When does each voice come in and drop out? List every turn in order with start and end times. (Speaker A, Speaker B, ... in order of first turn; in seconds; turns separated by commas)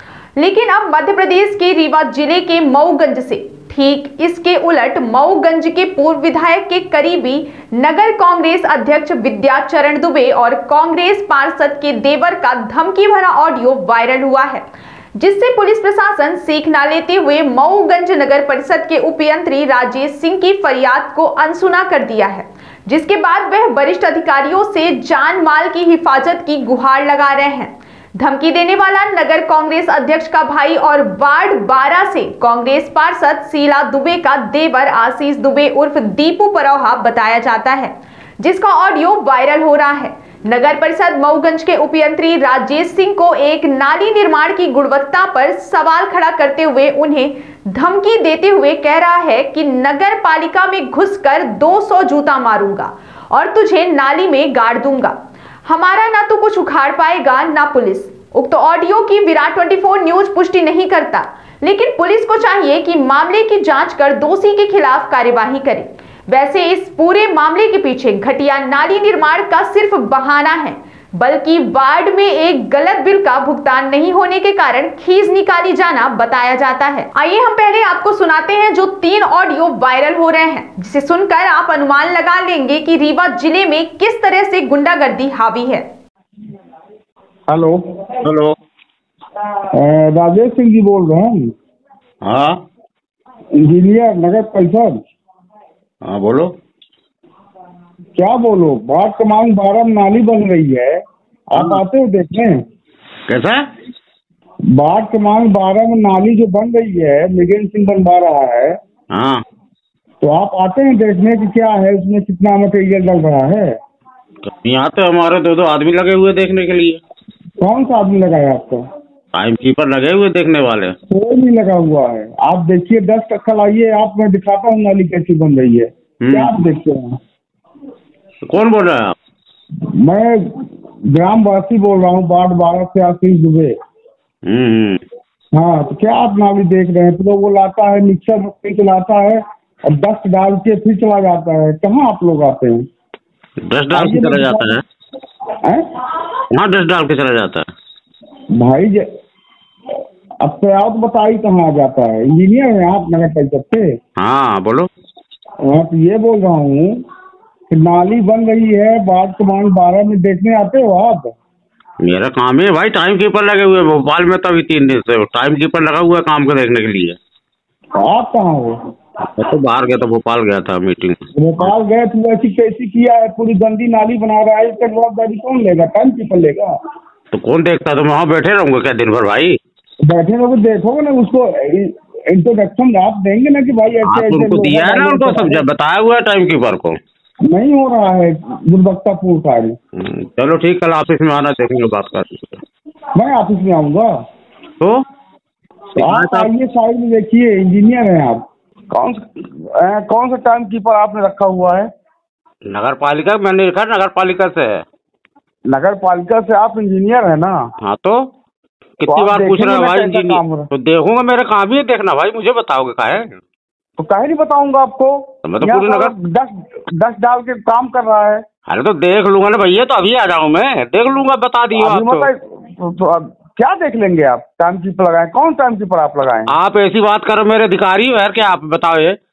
Speaker A: 0.4-14.7, Speaker A: 15.2-85.9, Speaker B: 87.5-88.2, Speaker C: 88.2-88.6, Speaker B: 89.7-91.5, Speaker C: 92.2-92.6, Speaker B: 93.6-95.0, Speaker C: 96.0-96.5, Speaker B: 98.2-102.6, Speaker C: 101.5-101.8, Speaker C: 103.3-103.6, Speaker B: 104.7-108.8, Speaker C: 109.1-109.4, Speaker B: 110.2-113.7, Speaker C: 114.4-117.0, Speaker B: 117.6-118.8, Speaker C: 119.3-121.0, Speaker B: 121.1-127.2, Speaker C: 126.2-126.5, Speaker C: 128.4-129.2, Speaker B: 129.8-133.7, Speaker C: 134.4-135.0, Speaker B: 135.5-142.9, Speaker C: 143.6-144.8, Speaker B: 143.9-144.7, Speaker C: 146.5-147.7, Speaker B: 148.6-149.1, Speaker B: 150.4-154.0, Speaker C: 154.2-154.9, Speaker B: 155.6-157.0, Speaker B: 157.7-161.3, Speaker C: 162.0-167.2, Speaker B: 168.0-168.8, Speaker C: 169.2-171.7, Speaker B: 171.3-176.7, Speaker C: 177.3-179.6, Speaker B: 180.0-185.7, Speaker C: 184.0-187.0, Speaker B: 187.4-189.8, Speaker C: 189.9-192.6, Speaker B: 193.2-194.1, Speaker B: 195.9-201.9, Speaker C: 196.0-196.5, Speaker C: 202.7-204.8, Speaker B: 205.7-207.7, Speaker C: 207.8-208.3, Speaker C: 209.0-213.4, Speaker B: 209.1-210.7, Speaker B: 214.0-218.4, Speaker C: 215.4-216.1, Speaker C: 218.7-222.3, Speaker B: 221.8-226.5, Speaker C: 226.5-229.2